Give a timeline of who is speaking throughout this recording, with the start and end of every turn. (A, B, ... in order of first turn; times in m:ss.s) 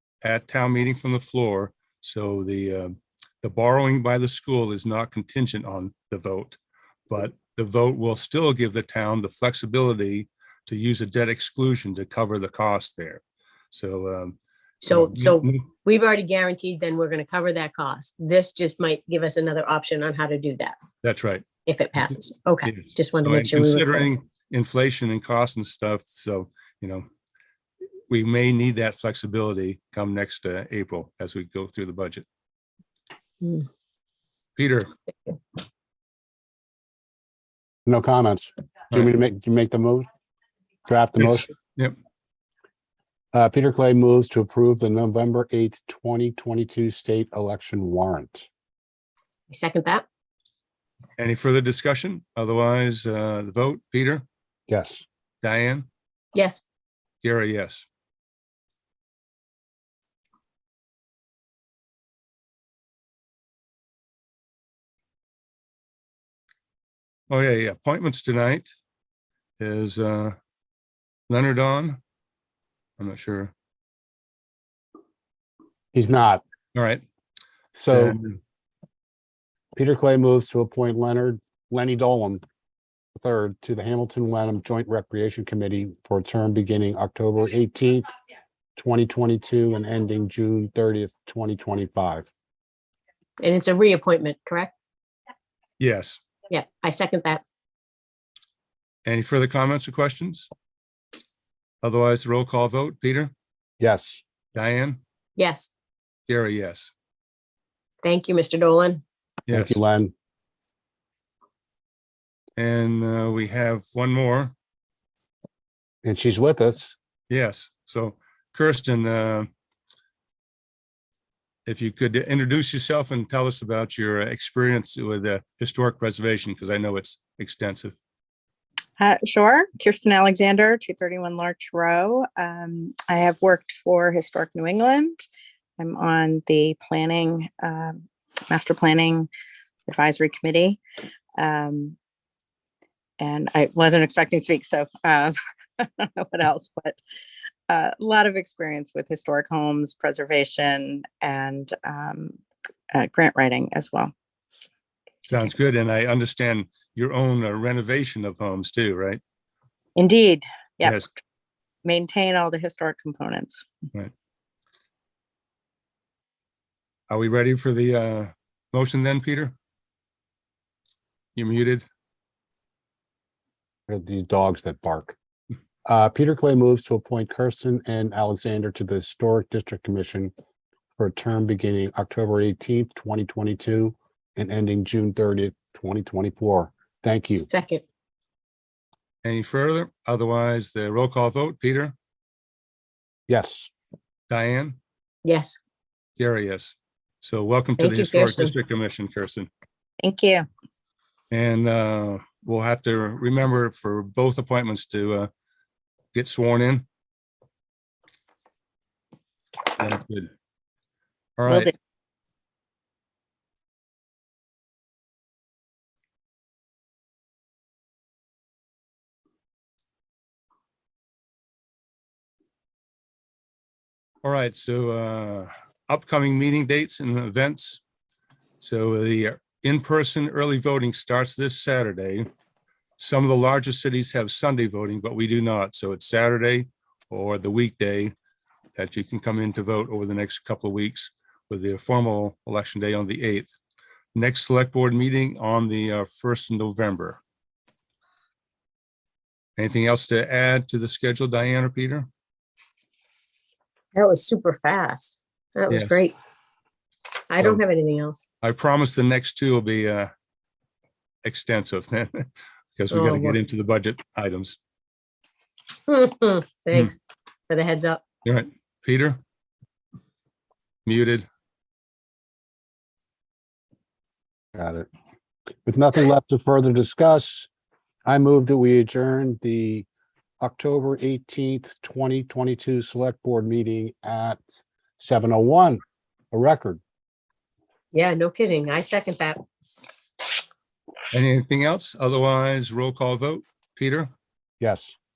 0:00.2-0:06.6 A
0:07.1-0:14.4 A
0:14.8-0:20.8 B
0:14.9-0:15.7 A
0:21.0-0:21.5 A
0:21.7-0:24.1 B
0:22.7-0:27.1 A
0:28.1-0:32.2 A
0:33.4-0:33.7 B
0:34.6-0:34.9 A
0:37.9-0:40.1 C
0:40.9-0:41.5 C
0:41.2-0:42.0 A
0:43.3-0:48.5 C
0:49.5-0:50.0 B
0:51.2-0:54.2 A
0:54.7-0:55.0 C
0:55.4-0:55.9 A
0:56.3-0:56.6 B
0:57.2-0:57.9 A
1:07.3-1:08.7 A
1:09.6-1:10.4 A
1:11.3-1:12.0 A
1:13.0-1:13.5 A
1:15.9-1:16.4 C
1:16.8-1:17.0 A
1:17.7-1:18.2 C
1:17.9-1:18.4 A
1:19.8-1:22.4 C
1:23.2-1:28.1 C
1:28.8-1:32.3 C
1:33.4-1:34.7 B
1:35.8-1:36.2 A
1:36.5-1:37.4 B
1:39.1-1:40.5 A
1:41.8-1:43.3 A
1:43.8-1:44.2 C
1:44.5-1:45.0 A
1:45.4-1:45.7 B
1:46.3-1:46.9 A
1:48.0-1:49.0 B
1:49.5-1:49.8 A
1:49.5-1:50.1 C
1:52.6-1:54.5 A
1:56.0-1:57.0 C
1:57.3-1:59.5 A
2:01.7-2:08.0 A
2:09.0-2:15.2 D
2:15.8-2:19.3 D
2:19.9-2:20.8 D
2:21.4-2:22.0 D
2:23.2-2:27.0 D
2:27.7-2:32.4 D
2:32.9-2:34.1 D
2:35.3-2:39.2 A
2:40.0-2:41.0 D
2:41.8-2:43.7 D
2:47.1-2:49.5 A
2:51.4-2:51.8 A
2:53.9-2:55.2 C
2:55.9-3:00.3 C
3:01.0-3:07.5 C
3:07.4-3:07.8 B
3:09.2-3:11.9 A
3:13.3-3:13.7 C
3:14.3-3:14.8 A
3:15.2-3:15.6 B
3:16.2-3:19.5 A
3:17.8-3:18.5 B
3:20.0-3:20.5 D
3:21.3-3:25.3 A
3:26.1-3:26.9 A
3:29.8-3:30.3 A
3:31.4-3:31.7 A
3:31.5-3:31.7 D
3:44.2-3:47.8 A
3:48.6-3:52.3 A
3:53.0-3:58.1 A
3:58.8-4:03.5 A
4:04.2-4:07.2 A
4:09.6-4:12.1 A
4:13.9-4:16.2 B
4:17.3-4:18.2 B
4:18.4-4:20.1 A
4:21.2-4:24.6 A
4:22.9-4:23.4 B
4:25.9-4:27.0 B
4:27.5-4:28.0 B
4:28.2-4:29.2 A
4:30.9-4:31.3 A
4:34.6-4:34.9 C
4:35.7-4:37.5 C
4:38.1-4:39.9 C
4:40.4-4:46.8 C
4:47.9-4:49.4 B
4:51.1-4:54.1 A
4:54.6-4:55.0 C